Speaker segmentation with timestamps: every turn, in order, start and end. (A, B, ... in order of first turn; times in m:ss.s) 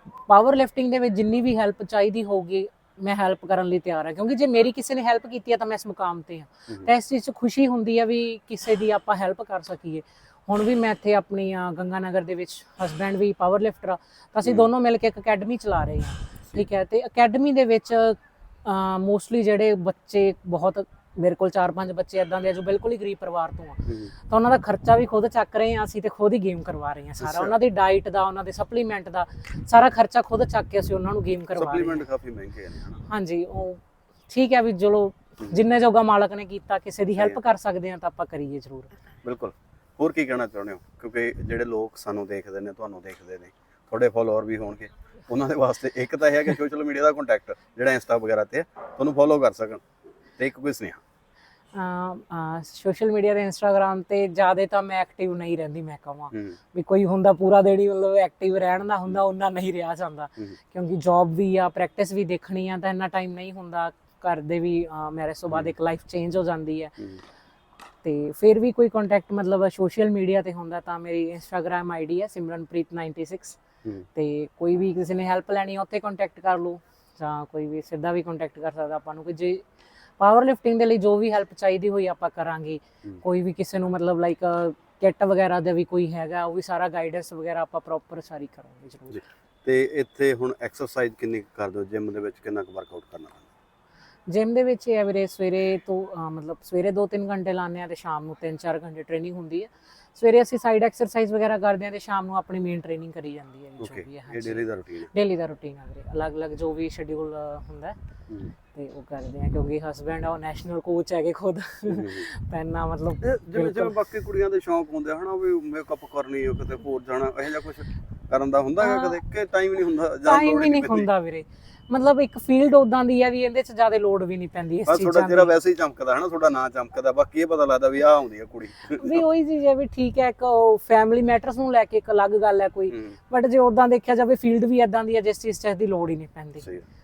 0:00.3-0:32.1 A
0:23.9-0:24.1 B
0:27.2-0:27.6 B
0:31.5-0:33.0 B
0:33.1-0:38.9 A
0:39.2-0:49.8 B
0:50.4-0:51.0 B
0:51.7-1:07.0 A
0:56.3-0:56.6 B
1:08.0-1:13.6 A
1:14.2-1:19.6 A
1:20.2-1:29.2 A
1:29.1-1:33.5 B
1:34.3-1:48.0 A
1:43.8-1:45.1 B
1:48.3-1:48.5 B
1:48.7-1:54.0 A
1:51.9-1:52.3 B
1:53.2-2:01.1 B
1:58.8-1:59.2 A
2:00.2-2:05.5 A
2:04.9-2:09.2 B
2:09.0-2:16.6 A
2:12.9-2:13.2 B
2:16.6-2:16.9 B